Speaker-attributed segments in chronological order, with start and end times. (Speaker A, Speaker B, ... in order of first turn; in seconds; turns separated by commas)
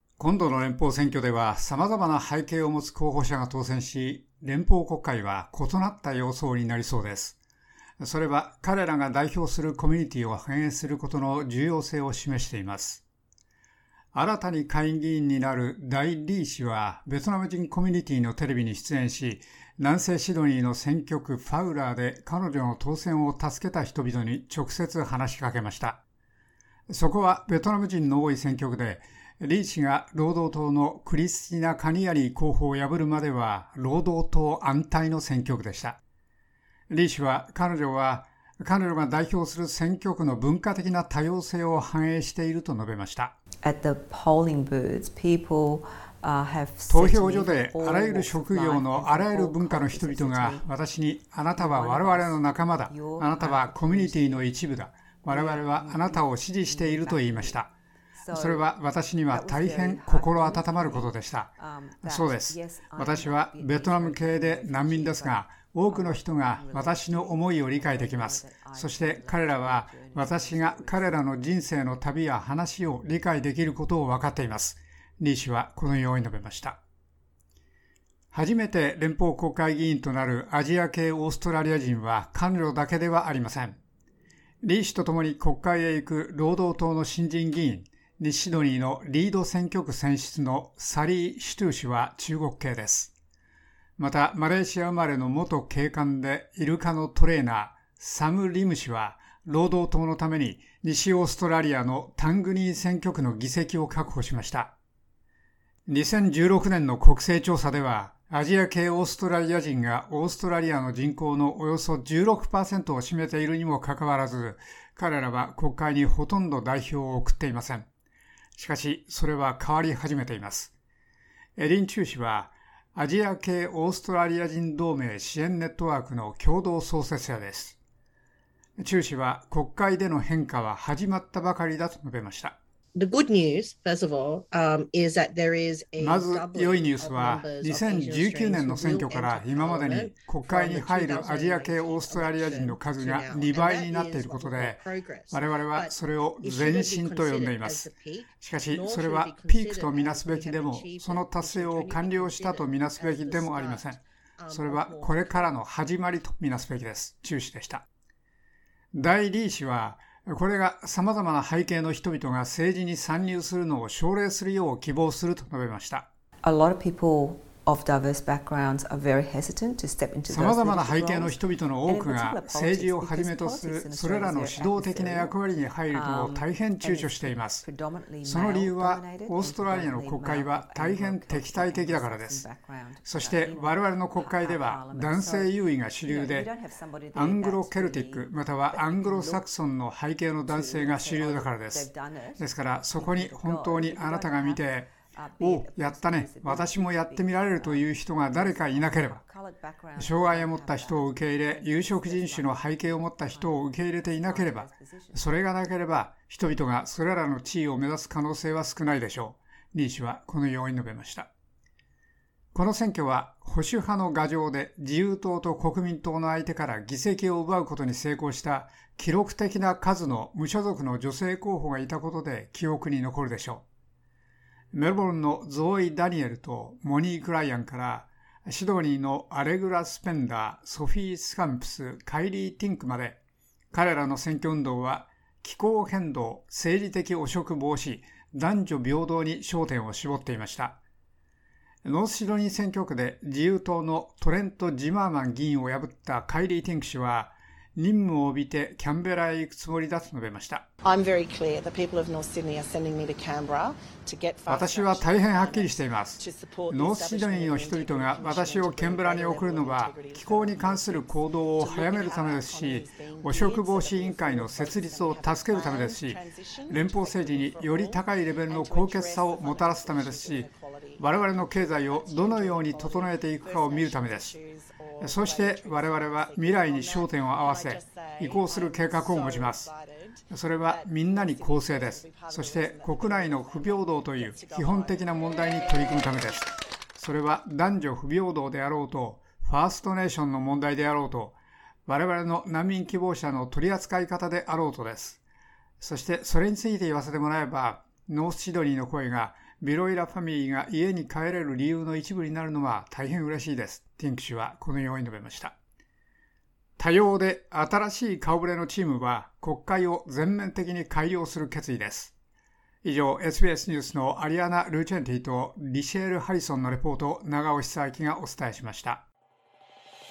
Speaker A: 0.2-7.4, Speaker A: 8.0-13.0, Speaker A: 14.1-26.0, Speaker A: 26.9-36.0, Speaker A: 36.9-43.4, Speaker B: 43.6-50.7, Speaker A: 46.9-57.7, Speaker B: 51.5-54.5, Speaker B: 55.3-58.7, Speaker A: 58.3-61.5, Speaker B: 59.3-71.2, Speaker A: 62.0-76.8, Speaker A: 78.3-83.8, Speaker A: 84.6-93.1, Speaker A: 94.0-104.7, Speaker A: 105.9-117.9, Speaker A: 118.6-120.7, Speaker A: 121.6-127.8, Speaker A: 128.8-132.6, Speaker C: 132.9-155.5, Speaker A: 136.0-157.8, Speaker A: 158.9-166.1, Speaker B: 166.4-175.3, Speaker A: 170.3-177.7, Speaker B: 175.9-189.5, Speaker A: 178.2-182.5, Speaker A: 183.1-186.5, Speaker A: 187.1-199.2, Speaker B: 190.5-205.3, Speaker A: 200.0-211.3, Speaker A: 212.5-223.6, Speaker A: 224.7-233.2, Speaker A: 233.7-240.8, Speaker A: 241.8-250.7, Speaker C: 250.8-286.0, Speaker A: 254.5-270.5, Speaker A: 271.0-274.4, Speaker A: 275.0-279.7, Speaker A: 280.3-295.2, Speaker A: 295.8-305.6, Speaker A: 306.8-312.1, Speaker A: 312.8-319.1